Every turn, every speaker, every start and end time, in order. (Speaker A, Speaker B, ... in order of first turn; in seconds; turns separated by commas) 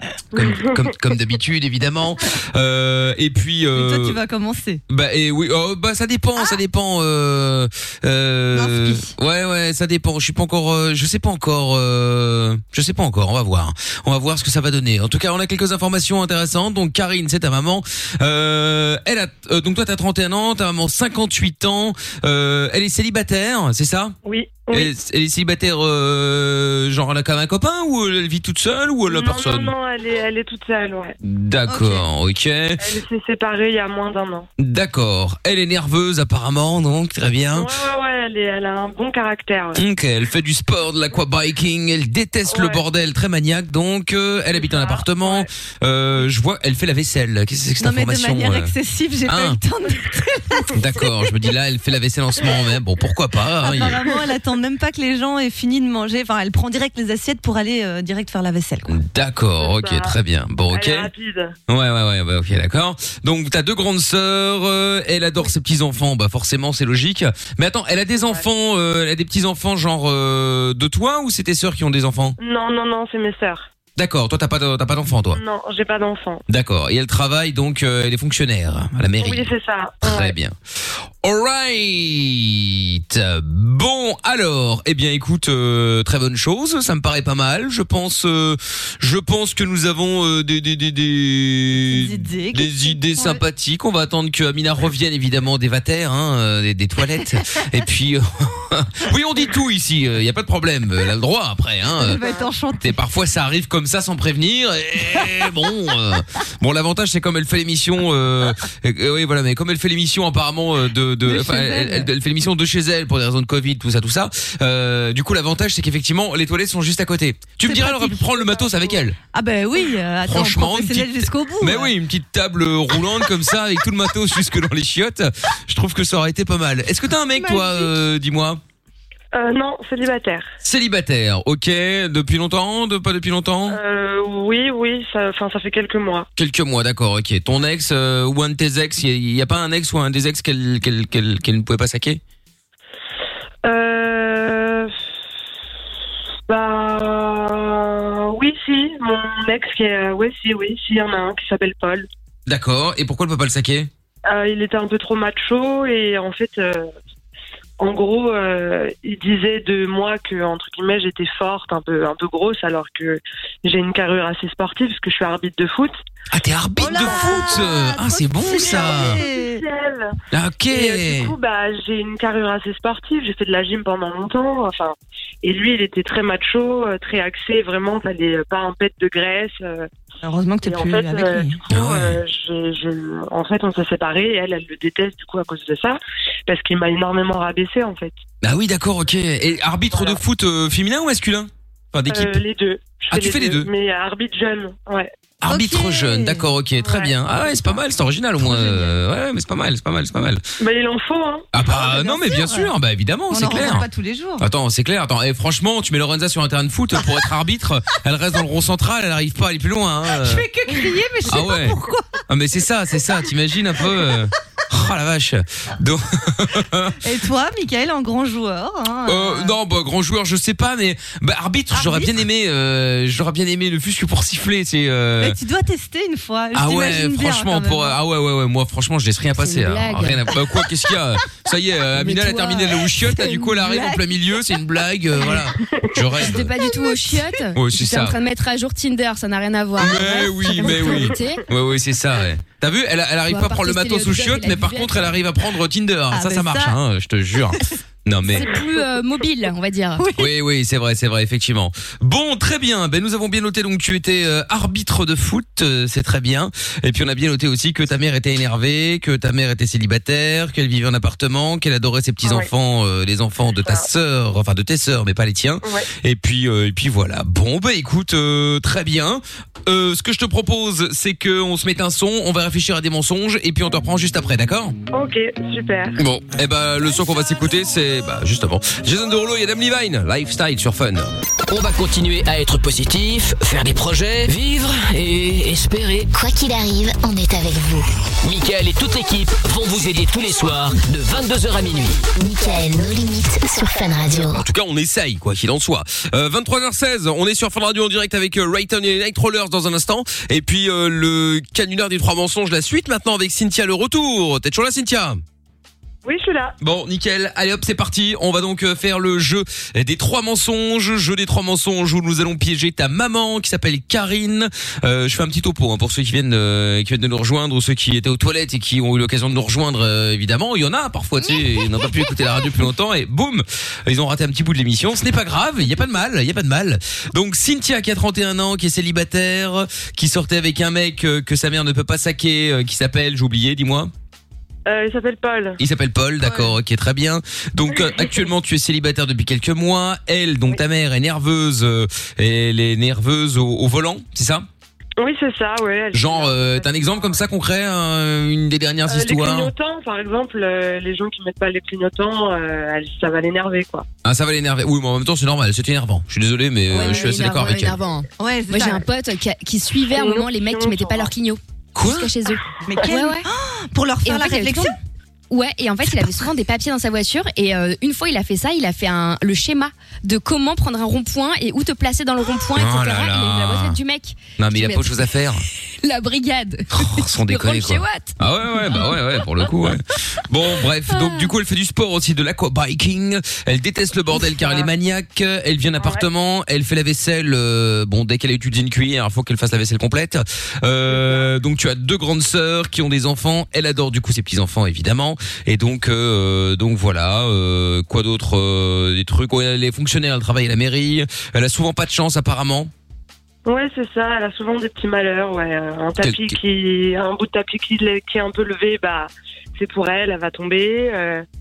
Speaker A: 0.3-0.9, Speaker B: 0.3-4.2, Speaker C: 3.8-4.8, Speaker B: 4.9-24.1, Speaker C: 8.5-9.1, Speaker A: 24.2-24.9, Speaker B: 24.7-29.8, Speaker A: 29.1-31.2, Speaker B: 31.2-32.9, Speaker C: 31.7-32.1, Speaker A: 32.8-34.5, Speaker B: 34.6-37.8, Speaker A: 37.5-39.8, Speaker B: 39.8-48.7, Speaker A: 42.5-42.8, Speaker A: 44.5-45.5, Speaker C: 47.8-51.1, Speaker B: 49.3-49.6, Speaker B: 50.7-54.0, Speaker C: 53.6-59.0, Speaker B: 58.9-61.1, Speaker A: 59.6-60.2, Speaker A: 60.7-61.5, Speaker B: 61.7-72.4, Speaker A: 68.2-68.5, Speaker A: 72.4-73.7, Speaker B: 74.0-75.4, Speaker A: 75.3-76.4, Speaker B: 76.5-80.5, Speaker A: 79.2-80.3, Speaker B: 81.2-102.2, Speaker C: 91.8-93.4, Speaker C: 101.9-103.0, Speaker B: 102.8-119.2, Speaker C: 111.2-112.1, Speaker C: 117.6-118.5, Speaker A: 118.5-118.9, Speaker C: 119.2-121.9, Speaker B: 120.2-128.6, Speaker C: 127.3-127.9, Speaker A: 129.3-130.5, Speaker B: 130.6-133.8, Speaker A: 133.7-136.3, Speaker B: 136.4-142.2, Speaker A: 143.7-144.9, Speaker A: 146.5-152.1, Speaker B: 152.5-153.9, Speaker A: 154.3-156.9, Speaker A: 157.8-166.0, Speaker B: 166.3-169.2, Speaker C: 166.8-169.6, Speaker A: 168.6-170.1, Speaker B: 170.3-171.4, Speaker A: 170.7-179.9, Speaker C: 180.2-181.6, Speaker A: 180.6-188.2, Speaker B: 181.7-182.2, Speaker B: 188.4-192.4, Speaker A: 189.9-190.2, Speaker A: 192.1-195.1, Speaker B: 193.1-193.7, Speaker B: 195.4-200.4, Speaker C: 195.5-196.4, Speaker A: 196.8-197.8, Speaker C: 198.4-199.0, Speaker A: 200.6-201.5, Speaker B: 201.5-203.9, Speaker C: 201.6-202.7, Speaker C: 203.3-204.4, Speaker B: 204.4-210.5, Speaker C: 210.1-212.2, Speaker B: 211.3-217.0, Speaker C: 213.8-214.2, Speaker C: 217.0-219.6, Speaker B: 219.1-225.4, Speaker C: 221.7-222.2, Speaker C: 225.2-228.0, Speaker B: 226.5-236.5, Speaker D: 229.4-230.2, Speaker D: 232.0-232.8, Speaker C: 232.8-234.1, Speaker C: 235.2-235.5, Speaker A: 235.8-236.0, Speaker D: 236.2-241.4, Speaker C: 236.7-237.3, Speaker B: 237.6-238.2, Speaker B: 239.8-248.5, Speaker D: 243.3-245.1, Speaker C: 246.1-246.8, Speaker D: 248.3-250.1, Speaker C: 248.3-248.6, Speaker C: 250.0-250.3, Speaker B: 250.2-274.8, Speaker A: 262.2-262.5, Speaker A: 263.6-263.9, Speaker A: 274.9-275.9, Speaker B: 276.0-281.1, Speaker E: 281.5-286.1, Speaker F: 286.1-287.9, Speaker E: 288.2-292.0, Speaker F: 292.1-294.4, Speaker B: 294.3-305.2, Speaker A: 306.0-306.5, Speaker B: 306.6-333.9, Speaker A: 334.7-335.6, Speaker B: 335.6-344.5, Speaker C: 336.2-336.6, Speaker A: 337.7-338.3, Speaker A: 345.0-347.2, Speaker B: 345.9-349.5, Speaker A: 348.9-353.9, Speaker B: 354.0-357.8, Speaker D: 356.7-363.3, Speaker C: 358.2-358.8, Speaker A: 359.9-361.1, Speaker B: 361.8-362.1, Speaker C: 362.7-364.8, Speaker D: 364.0-364.8, Speaker D: 365.3-374.9, Speaker B: 372.6-373.8, Speaker B: 374.4-375.4, Speaker D: 375.8-378.2, Speaker B: 376.7-402.7, Speaker A: 385.8-386.1, Speaker A: 390.9-391.3, Speaker A: 403.5-411.2, Speaker B: 406.0-406.4